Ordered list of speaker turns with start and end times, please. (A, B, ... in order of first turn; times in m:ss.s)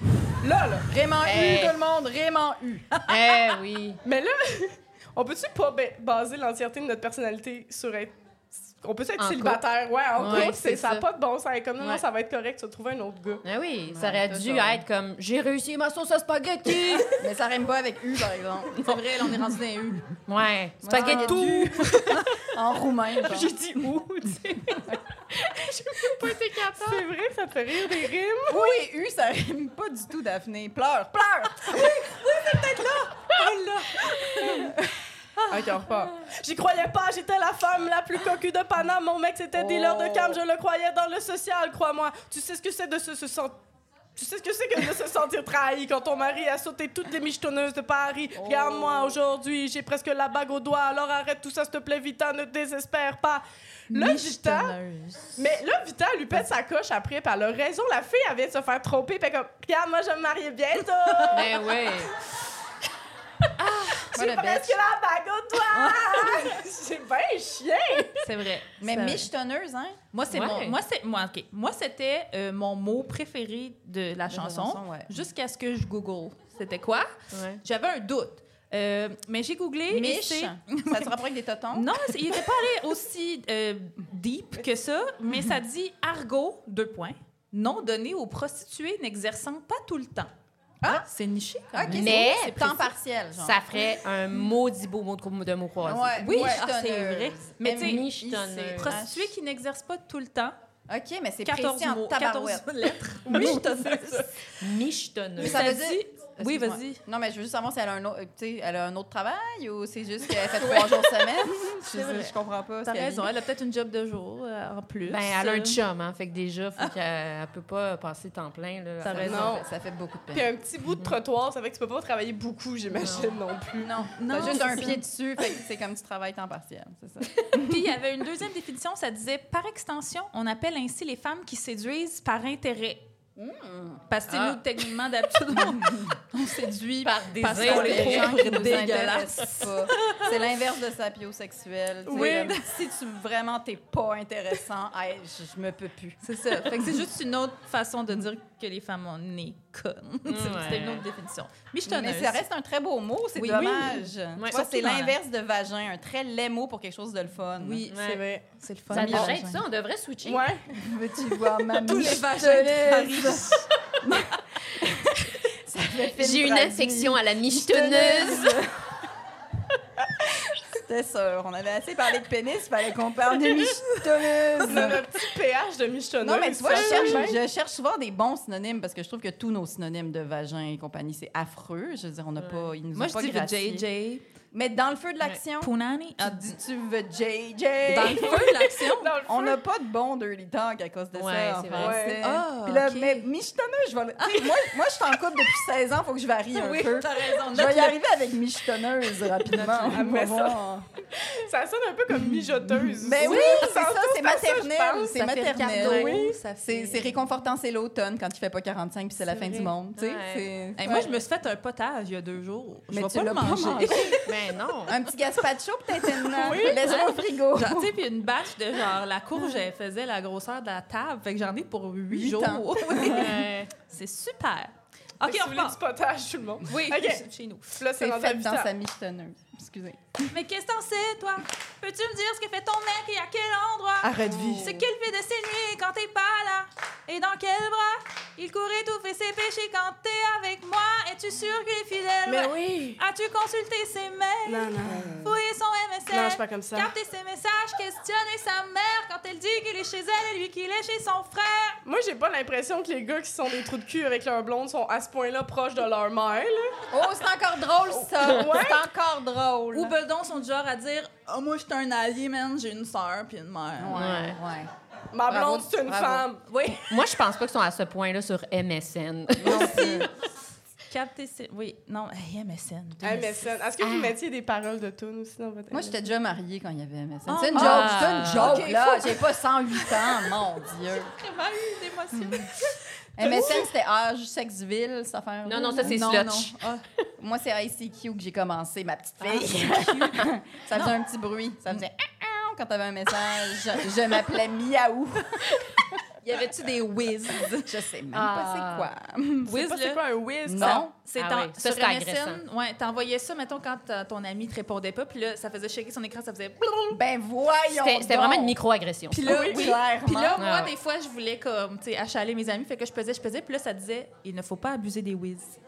0:00.4-0:00.9 A
0:00.8-0:03.0 B
0:01.2-0:01.8 C
0:03.1-0:04.0 C
0:04.0-0:13.4 A
0:09.2-0:09.6 C
0:10.2-0:11.0 C
0:13.4-0:17.2 C
0:13.9-0:14.8 B
0:17.2-0:18.9 B
0:18.8-0:20.0 D
0:20.3-0:22.5 C
0:20.8-0:23.5 B
0:20.9-0:22.2 D
0:23.2-0:27.1 C
0:26.7-0:28.8 A
0:28.5-0:33.4 B
0:32.4-0:32.9 D
0:34.1-0:34.5 C
0:34.4-0:34.9 B
0:35.4-0:35.7 D
0:35.5-0:43.6 A
0:39.5-0:40.4 B
0:44.2-0:54.7 A
0:48.3-0:49.2 B
0:53.9-0:55.4 D
0:55.4-1:02.1 A
1:01.3-1:02.1 C
1:03.6-1:04.1 D
1:04.1-1:08.3 A
1:04.1-1:04.8 B
1:05.7-1:06.5 D
1:08.2-1:09.3 D
1:08.8-1:10.0 B
1:10.1-1:21.1 D
1:10.3-1:10.8 C
1:14.3-1:15.1 B
1:17.3-1:17.6 C
1:19.9-1:22.4 B
1:21.7-1:30.3 D
1:30.9-1:32.9 D
1:31.7-1:33.6 B
1:31.9-1:32.7 C
1:33.3-1:36.2 C
1:35.8-1:39.3 B
1:36.2-1:38.1 D
1:37.6-1:39.0 C
1:38.8-1:40.5 D
1:40.9-1:44.0 B
1:41.4-1:44.3 D
1:43.3-1:43.6 C
1:44.4-1:45.7 C
1:45.4-1:53.3 B
1:45.4-1:47.0 D
1:50.6-1:55.8 D
1:55.1-1:59.6 C
1:59.0-1:59.5 D
1:59.1-2:00.5 B
1:59.2-1:59.7 A
2:00.3-2:04.6 A
2:02.9-2:03.4 C
2:03.8-2:07.8 B
2:04.1-2:05.0 D
2:07.5-2:13.0 D
2:13.4-2:14.0 B
2:14.1-2:20.2 D
2:14.3-2:14.6 C
2:15.5-2:16.2 B
2:17.0-2:18.6 C
2:17.5-2:27.0 B
2:22.1-2:22.5 A
2:22.1-2:22.7 D
2:26.2-2:32.4 D
2:30.3-2:31.0 C
2:31.9-2:37.8 B
2:33.3-2:35.2 D
2:33.5-2:33.9 A
2:37.6-2:38.0 D
2:37.9-2:38.2 C
2:38.0-2:38.4 A
2:38.5-2:39.6 D
2:38.9-2:40.5 C
2:38.9-2:39.4 B
2:40.2-2:40.7 A
2:40.7-2:48.9 B
2:41.7-2:43.7 D
2:46.1-2:48.6 C
2:50.3-2:55.0 B
2:54.6-2:57.4 A
2:56.2-3:03.8 B
3:02.4-3:02.6 C
3:02.9-3:04.2 D
3:04.5-3:08.7 B
3:05.6-3:06.6 D
3:07.9-3:09.2 D
3:08.1-3:09.6 A
3:09.2-3:20.9 B
3:11.1-3:12.1 C
3:11.7-3:12.2 A
3:12.2-3:13.3 D
3:14.2-3:14.8 D
3:16.5-3:18.0 D
3:19.4-3:20.0 D
3:19.9-3:20.6 A
3:21.3-3:26.4 A
3:22.9-3:31.2 B
3:25.1-3:27.2 D
3:29.2-3:29.7 A
3:30.0-3:30.5 C
3:30.8-3:34.2 D
3:32.9-3:37.9 B
3:34.0-3:35.0 C
3:36.2-3:36.8 A
3:36.8-3:37.1 C
3:37.5-3:45.8 D
3:39.4-3:39.6 B
3:42.1-3:43.3 B
3:43.0-3:43.7 C
3:45.2-3:47.2 A
3:46.7-3:47.8 D
3:47.8-3:48.7 A
3:48.0-3:50.0 B
3:50.3-4:11.8 D
3:54.0-3:54.8 A
3:54.2-3:54.8 B
4:02.2-4:03.0 A
4:04.4-4:05.4 A
4:06.1-4:06.9 A
4:11.8-4:16.8 A
4:16.9-4:20.0 B
4:17.9-4:18.8 A
4:19.7-4:24.0 D
4:23.8-4:24.7 B
4:23.9-4:24.4 C
4:25.1-4:26.4 A
4:25.3-4:26.3 B
4:26.5-4:26.8 D
4:26.8-4:29.8 C
4:29.4-4:30.1 B
4:29.4-4:30.2 D
4:30.9-4:33.5 D
4:33.0-4:35.9 A
4:33.8-4:34.2 C
4:35.7-4:41.1 B
4:37.3-4:43.6 D
4:37.5-4:38.6 C
4:42.2-4:42.5 B
4:43.2-4:46.5 B
4:43.2-4:43.6 A
4:45.4-4:46.6 C
4:45.8-4:46.8 D
4:47.2-4:55.8 B
4:49.2-4:50.0 C
4:49.6-4:50.9 D
4:56.2-4:57.7 D
4:57.4-4:59.6 B
4:58.1-4:58.9 C
4:59.4-5:07.0 D
4:59.5-5:00.8 A
5:00.4-5:00.9 B
5:01.2-5:02.4 C
5:06.9-5:08.6 B
5:07.7-5:09.4 C
5:09.1-5:15.6 D
5:09.2-5:09.7 A
5:09.2-5:10.4 B
5:10.4-5:10.7 C